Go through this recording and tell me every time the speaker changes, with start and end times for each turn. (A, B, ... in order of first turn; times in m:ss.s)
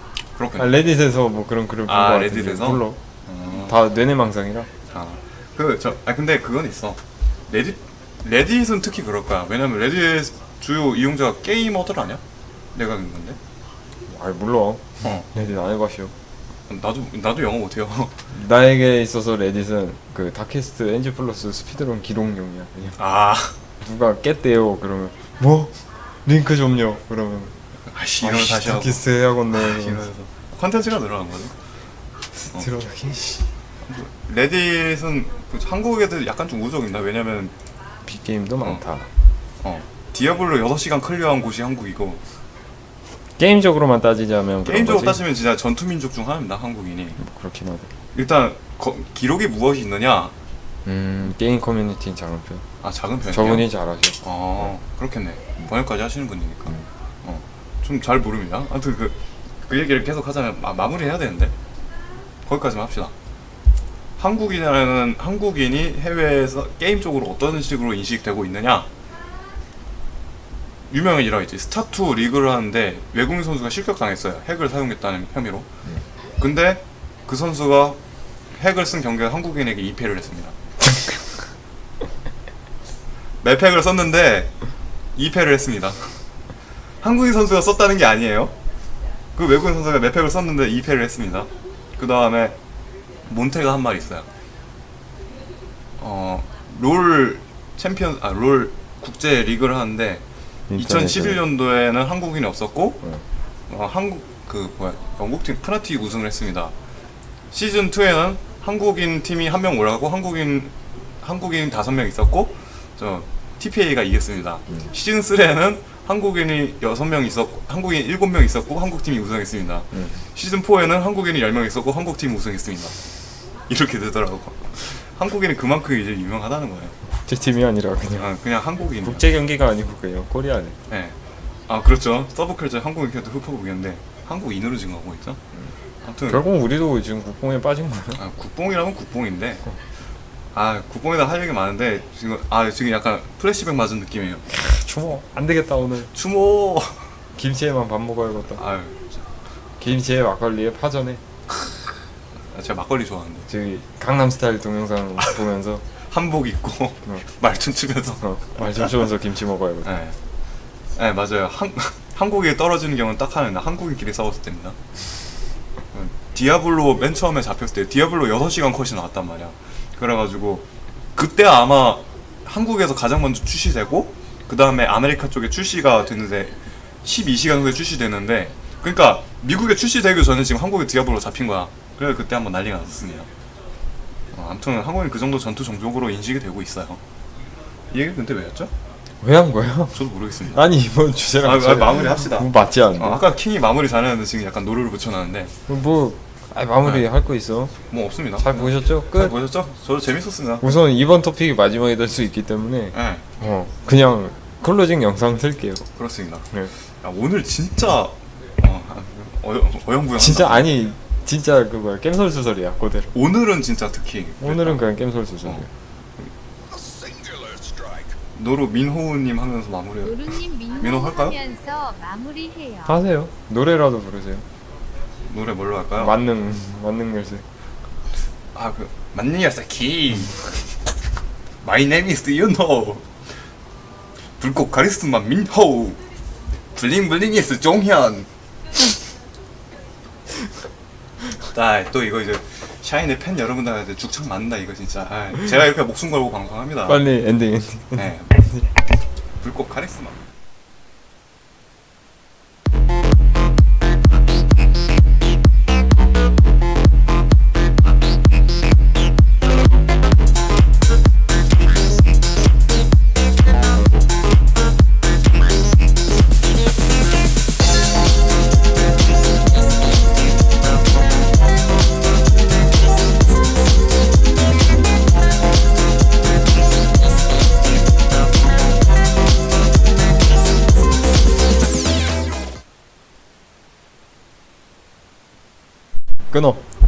0:00.3-0:00.8 A
0:00.6-0:03.0 B
0:01.9-0:03.8 A
0:03.6-0:04.7 B
0:04.9-0:12.2 A
0:12.7-0:13.4 A
0:14.1-0:16.1 B
0:15.0-0:15.3 A
0:16.7-0:18.2 A
0:18.3-0:23.0 B
0:23.0-0:23.6 A
0:23.8-0:27.6 B
0:27.8-0:31.6 A
0:28.2-0:30.1 B
0:32.3-0:33.5 B
0:33.8-0:37.5 A
0:38.0-0:39.1 B
0:39.6-0:42.2 A
0:43.4-0:45.2 B
0:44.6-0:47.2 A
0:47.2-0:47.9 B
0:48.1-0:50.3 A
0:50.8-0:52.6 B
0:52.8-0:53.7 A
0:53.2-0:54.7 B
0:54.2-1:01.5 A
1:02.4-1:03.1 A
1:04.2-1:08.9 A
1:10.9-1:15.7 A
1:16.4-1:18.0 A
1:18.5-1:20.6 A
1:23.4-1:24.5 A
1:25.2-1:26.3 A
1:27.0-1:28.5 A
1:29.3-1:32.6 A
1:33.2-1:34.3 A
1:36.0-1:40.2 A
1:40.7-1:41.4 B
1:40.7-1:43.0 A
1:43.7-1:46.7 A
1:47.5-2:03.0 A
1:59.9-2:00.2 B
2:03.7-2:07.0 A
2:07.2-2:08.3 B
2:08.2-2:09.3 A
2:09.0-2:10.8 B
2:10.9-2:11.2 A
2:11.7-2:15.4 A
2:16.0-2:16.4 A
2:16.3-2:18.2 B
2:18.2-2:19.6 A
2:20.5-2:24.5 A
2:24.5-2:26.1 B
2:26.1-2:27.2 A
2:27.4-2:28.6 B
2:28.5-2:29.2 A
2:29.8-2:31.2 B
2:32.5-2:33.5 A
2:33.5-2:35.8 B
2:36.0-2:39.1 A
2:38.2-2:39.9 B
2:39.8-2:40.2 A
2:40.9-2:44.8 A
2:45.9-3:03.3 A
3:04.3-3:07.0 A
3:07.9-3:08.7 A
3:09.2-3:13.3 B
3:09.9-3:10.6 A
3:11.4-3:15.5 A
3:15.7-3:17.8 B
3:16.8-3:17.1 A
3:17.9-3:20.8 A
3:18.4-3:19.4 B
3:20.6-3:25.8 B
3:22.9-3:23.4 A
3:25.9-3:30.7 A
3:30.1-3:33.1 B
3:33.1-3:34.9 A
3:34.4-3:35.7 B
3:37.2-3:41.4 A
3:40.1-3:43.0 C
3:42.8-3:44.4 B
3:45.2-3:46.1 A
3:46.0-3:47.5 B
3:48.5-3:50.5 A
3:51.6-3:53.2 A
3:54.4-3:56.0 A
3:56.7-3:58.9 A
4:01.4-4:07.0 A
4:06.8-4:08.7 B
4:08.0-4:08.4 A
4:09.4-4:10.2 A
4:46.3-4:46.6 B